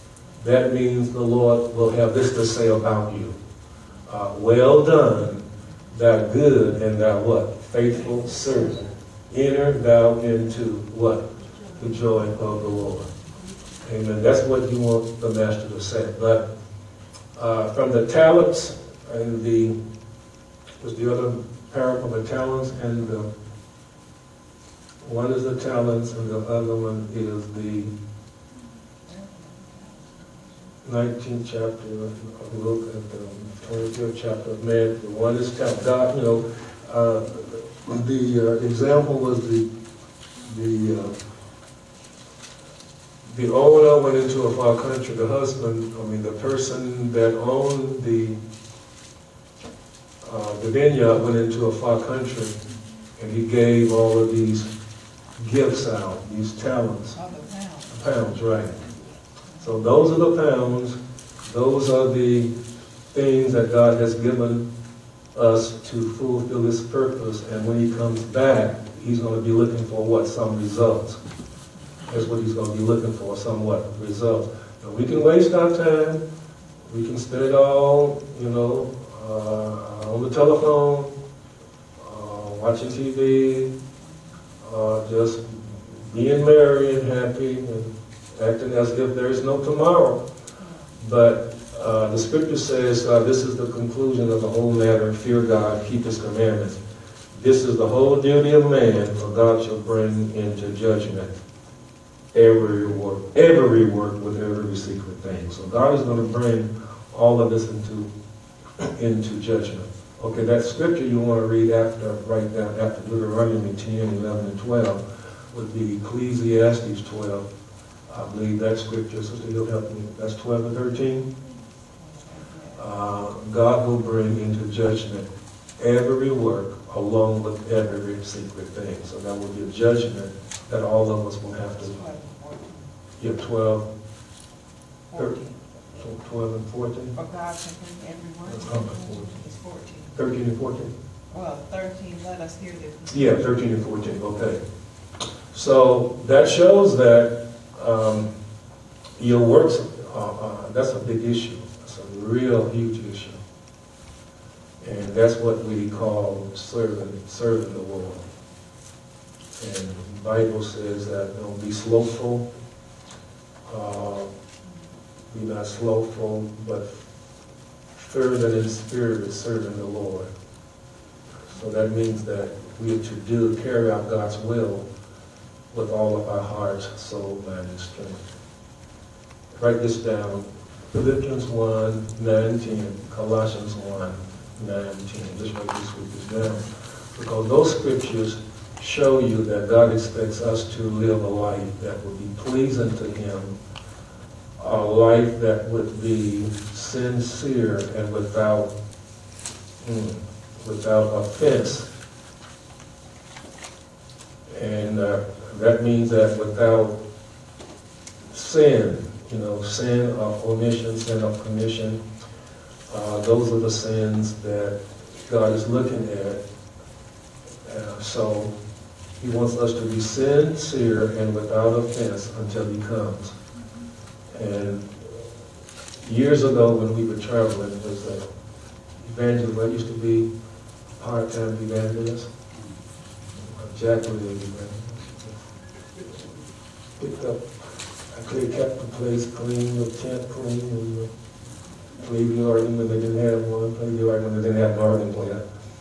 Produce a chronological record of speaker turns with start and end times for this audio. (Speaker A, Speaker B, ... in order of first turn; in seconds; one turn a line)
Speaker A: 0.4-3.4
Speaker A: 4.1-13.1
Speaker A: 13.8-16.5
Speaker A: 17.4-19.8
Speaker A: 20.8-23.3
Speaker A: 25.0-27.9
Speaker B: 29.1-29.9
Speaker A: 30.8-39.7
Speaker A: 40.5-41.1
Speaker A: 43.3-48.4
Speaker A: 50.2-52.6
Speaker A: 53.2-54.7
Speaker A: 55.4-57.2
Speaker B: 57.1-58.0
Speaker A: 57.9-58.8
Speaker A: 59.6-62.5
Speaker A: 63.1-64.7
Speaker A: 65.3-71.2
Speaker A: 72.1-76.2
Speaker A: 76.9-81.1
Speaker A: 82.0-83.7
Speaker A: 84.6-90.2
Speaker A: 91.0-96.8
Speaker A: 97.3-101.4
Speaker A: 102.3-108.1
Speaker A: 108.8-117.5
Speaker A: 118.1-121.3
Speaker B: 122.0-122.8
Speaker A: 122.8-132.0
Speaker B: 131.8-132.9
Speaker A: 133.2-133.9
Speaker B: 135.1-135.7
Speaker A: 136.0-137.2
Speaker B: 137.1-140.1
Speaker A: 138.5-139.3
Speaker A: 140.1-140.9
Speaker B: 141.3-143.4
Speaker A: 143.1-144.6
Speaker A: 145.5-148.3
Speaker A: 149.2-153.4
Speaker A: 154.8-158.3
Speaker A: 159.6-162.5
Speaker A: 163.7-164.3
Speaker A: 165.3-167.0
Speaker A: 167.9-170.3
Speaker A: 171.5-174.8
Speaker A: 175.7-178.2
Speaker A: 179.6-193.6
Speaker A: 194.6-198.7
Speaker A: 199.8-201.9
Speaker A: 204.5-207.0
Speaker A: 208.3-212.0
Speaker A: 212.9-216.4
Speaker A: 217.7-218.5
Speaker A: 219.2-223.3
Speaker A: 224.3-225.1
Speaker A: 226.0-228.2
Speaker A: 229.0-230.3
Speaker A: 231.0-232.3
Speaker A: 233.4-235.4
Speaker A: 237.0-237.5
Speaker A: 238.1-241.1
Speaker A: 242.0-245.4